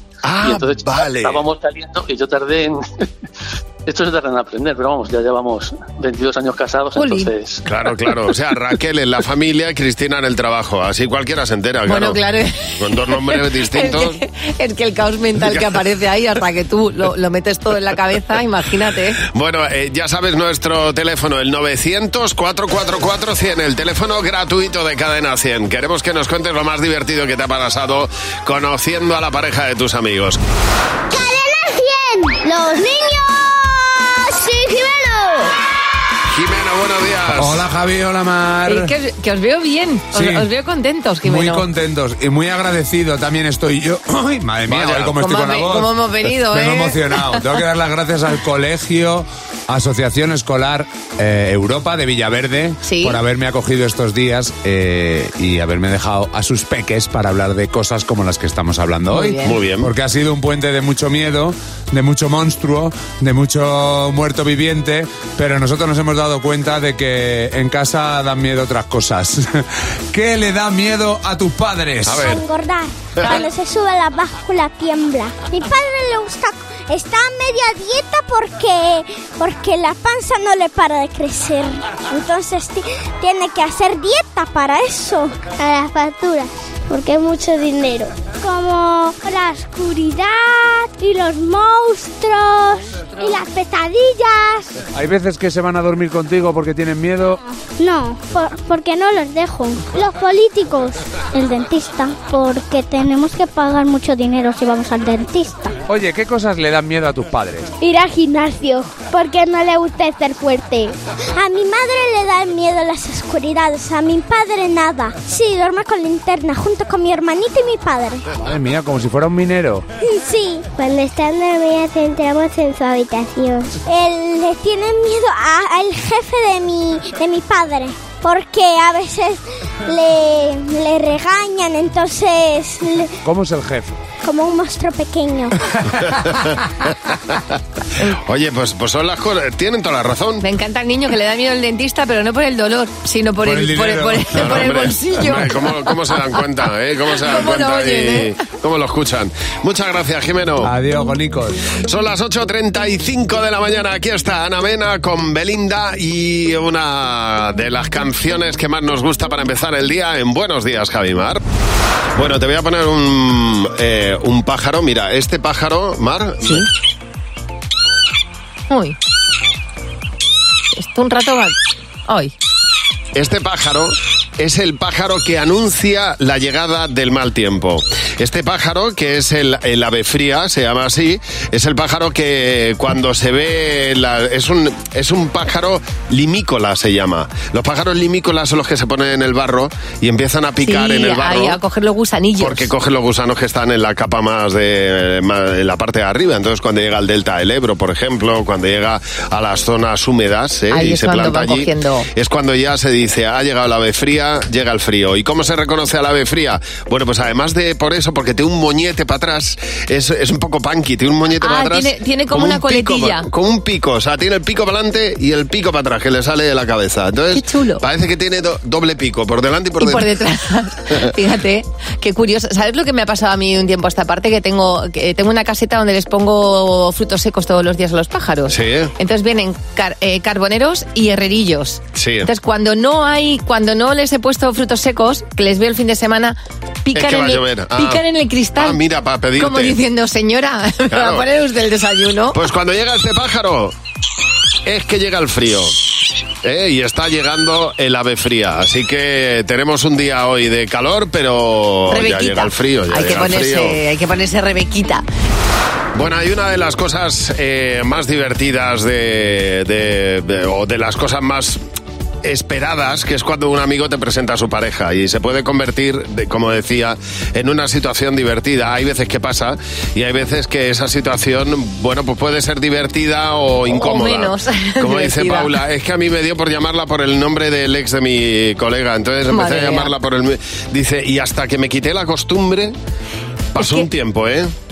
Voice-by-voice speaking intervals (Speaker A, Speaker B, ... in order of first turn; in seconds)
Speaker A: 0.2-1.4, 7.7-12.2, 12.8-14.2, 19.2-30.4, 36.3-37.6, 44.7-45.1, 59.4-59.9, 72.0-72.4, 138.2-140.4, 144.3-150.7, 151.8-161.4, 162.1-166.6, 173.1-191.6, 192.4-220.1, 228.5-228.9, 231.9-232.3, 236.9-238.0, 238.6-239.8, 240.9-241.3, 242.3-243.7, 244.6-245.8, 246.4-253.8, 255.9-261.6, 262.2-282.8, 283.5-284.5
Speaker B: 0.4-3.0, 3.9-7.6
Speaker C: 6.9-7.3, 11.9-19.2, 38.6-41.6, 45.1-47.5, 52.8-53.2, 59.1-59.5, 140.4-145.9, 147.1-148.3, 168.7-168.9, 170.7-171.5, 172.1-172.3, 190.6-192.7, 200.7-202.1, 211.4-213.3, 217.3-217.8, 219.8-238.8, 239.4-242.4, 251.9-255.0, 273.7-275.5, 279.3-279.9, 283.6-283.9
Speaker D: 31.1-35.6, 72.1-94.8, 97.6-105.7, 107.8-118.3, 120.0-133.1, 134.2-135.6
Speaker E: 37.3-38.9, 40.1-40.5, 41.2-45.9, 46.4-72.3, 94.9-97.4, 105.9-107.7, 118.4-119.8, 133.2-134.0, 135.9-136.1, 143.4-144.6, 150.6-151.6